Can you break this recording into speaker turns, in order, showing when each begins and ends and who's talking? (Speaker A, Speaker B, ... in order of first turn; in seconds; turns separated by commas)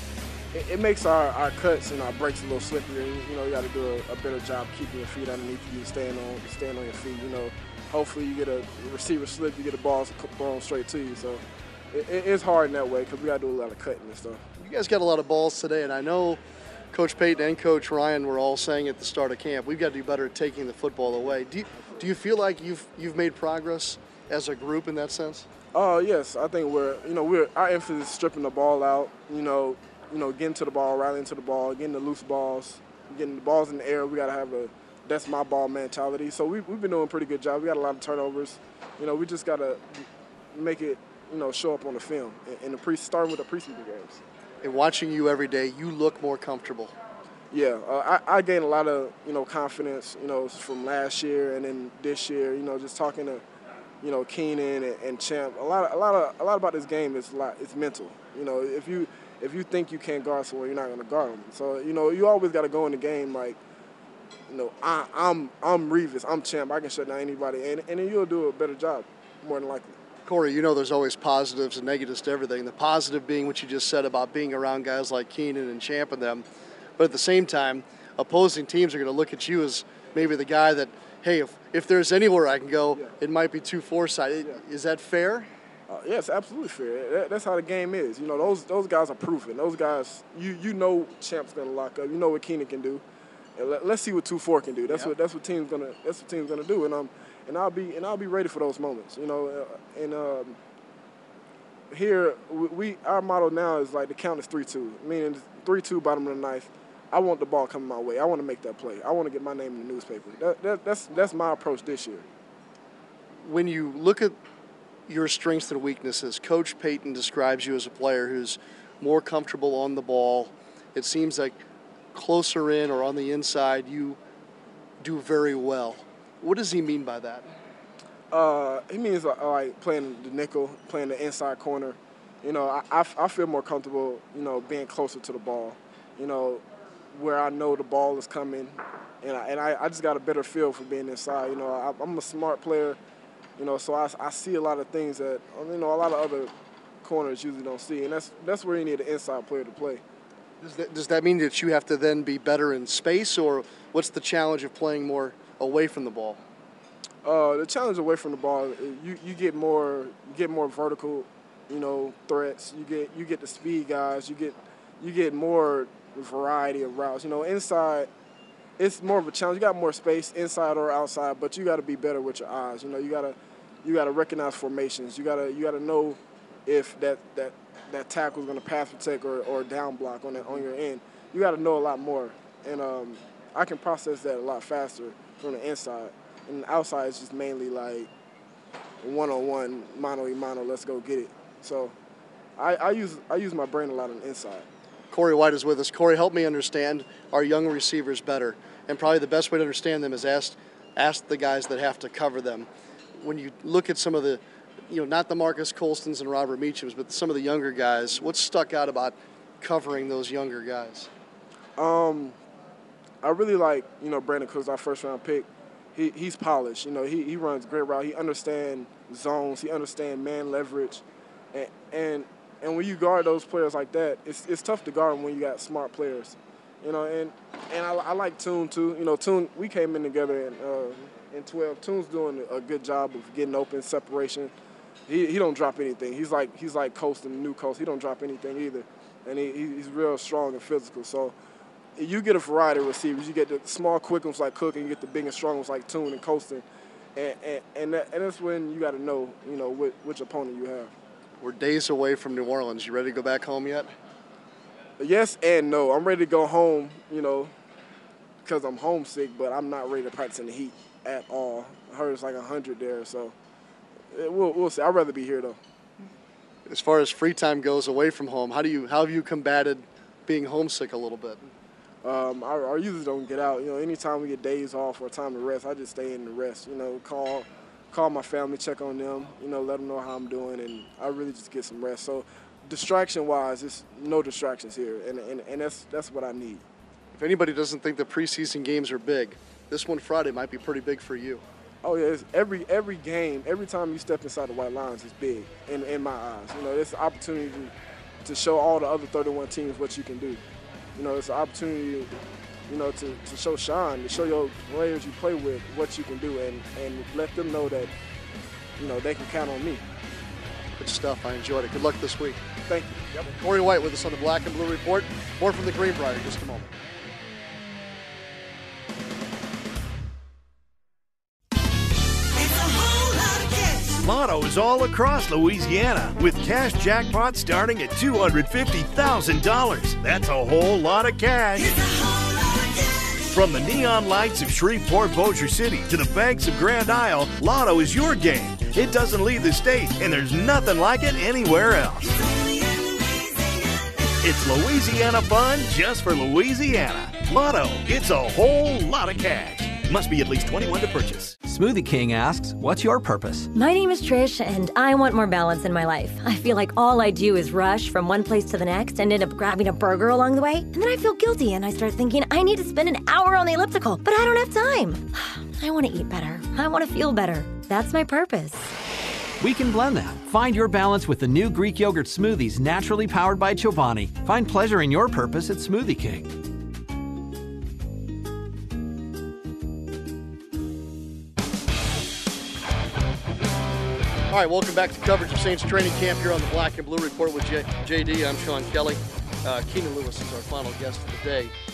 Speaker A: 0.5-14.4, Speaker B: 14.6-16.4, Speaker B: 16.9-25.5, Speaker A: 25.7-44.2, Speaker B: 44.6-46.9, Speaker A: 47.5-53.4, Speaker A: 54.0-63.6, Speaker A: 64.5-69.9, Speaker B: 70.3-76.5, Speaker B: 77.0-85.5, Speaker A: 85.9-93.0, Speaker A: 93.6-100.6, Speaker A: 101.9-112.2, Speaker B: 113.4-114.4, Speaker B: 115.1-121.6, Speaker B: 122.1-124.2, Speaker B: 125.0-127.5, Speaker A: 128.3-136.6, Speaker A: 137.1-143.0, Speaker A: 143.6-146.5, Speaker A: 147.0-150.0, Speaker B: 150.6-156.4, Speaker A: 157.2-168.1, Speaker A: 168.8-188.1, Speaker A: 189.0-191.9, Speaker A: 192.6-194.7, Speaker B: 195.1-211.1, Speaker A: 211.8-212.4, Speaker A: 213.2-221.0, Speaker A: 221.5-234.5, Speaker A: 235.1-241.3, Speaker A: 242.0-246.6, Speaker A: 247.2-250.9, Speaker B: 251.4-253.9, Speaker A: 255.0-257.5, Speaker A: 258.4-263.3, Speaker A: 264.1-265.6, Speaker B: 266.7-271.4, Speaker A: 272.0-286.6, Speaker B: 287.1-291.4, Speaker A: 291.8-297.7, Speaker A: 298.2-300.4, Speaker A: 301.0-302.1, Speaker A: 302.7-307.9, Speaker A: 308.8-309.8, Speaker B: 310.8-312.4, Speaker A: 312.7-313.0, Speaker B: 313.4-316.7, Speaker C: 324.1-331.6, Speaker C: 333.3-342.0, Speaker C: 344.2-351.3, Speaker D: 351.5-353.5, Speaker E: 353.6-368.7, Speaker D: 369.4-376.3, Speaker B: 384.3-391.5